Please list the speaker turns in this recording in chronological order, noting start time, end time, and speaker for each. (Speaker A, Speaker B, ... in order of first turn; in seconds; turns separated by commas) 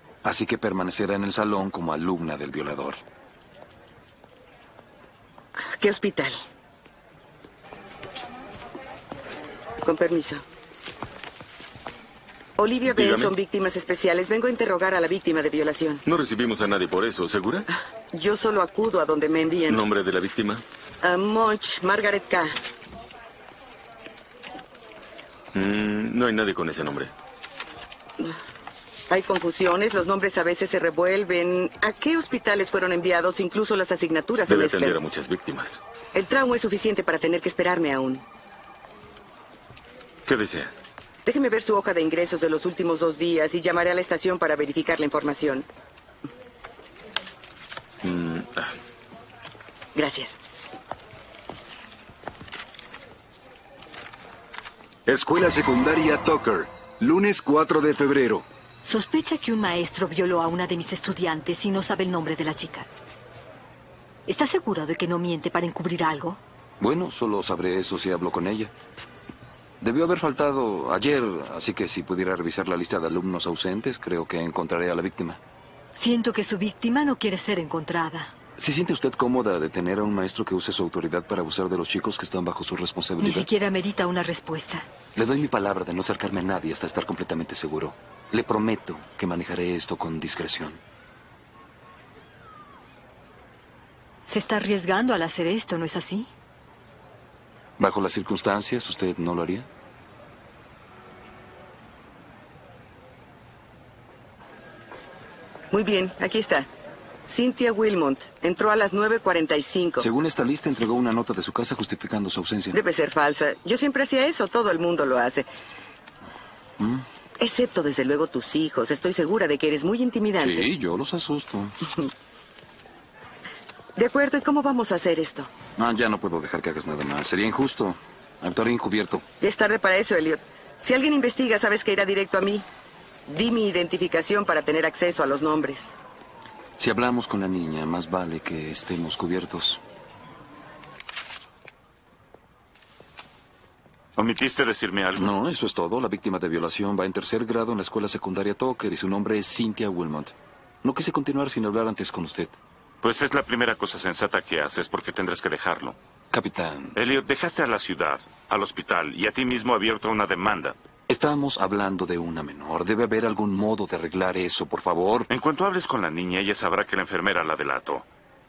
Speaker A: 0.2-3.0, Speaker B: 5.6-6.4, Speaker B: 9.8-10.4, Speaker B: 12.6-16.0, Speaker C: 12.9-13.3, Speaker C: 16.1-17.6, Speaker B: 18.1-19.8, Speaker C: 19.7-20.6, Speaker B: 21.0-22.6, Speaker C: 25.5-27.1, Speaker B: 29.1-35.0, Speaker C: 34.5-35.8, Speaker B: 36.1-38.2, Speaker C: 40.2-40.7, Speaker B: 41.2-45.7, Speaker C: 48.0-48.7, Speaker B: 49.9-50.4, Speaker D: 55.1-58.4, Speaker E: 58.8-62.9, Speaker E: 64.2-66.4, Speaker A: 66.8-68.7, Speaker A: 69.8-75.4, Speaker E: 76.0-78.3, Speaker A: 78.6-83.5, Speaker E: 83.2-84.9, Speaker A: 85.1-90.8, Speaker E: 94.3-96.3, Speaker A: 97.8-99.7, Speaker B: 105.7-106.7, Speaker B: 107.3-110.0, Speaker A: 110.0-112.8, Speaker B: 112.7-115.5, Speaker A: 116.8-117.0, Speaker B: 117.4-120.7, Speaker A: 120.4-121.8, Speaker B: 124.0-125.5, Speaker A: 125.8-129.2, Speaker B: 129.4-132.7, Speaker B: 133.3-135.9, Speaker A: 136.8-139.8, Speaker F: 144.2-145.3, Speaker A: 145.2-152.6, Speaker F: 153.0-155.9, Speaker A: 156.3-157.0, Speaker F: 156.9-160.8, Speaker A: 161.1-165.3, Speaker F: 165.3-168.0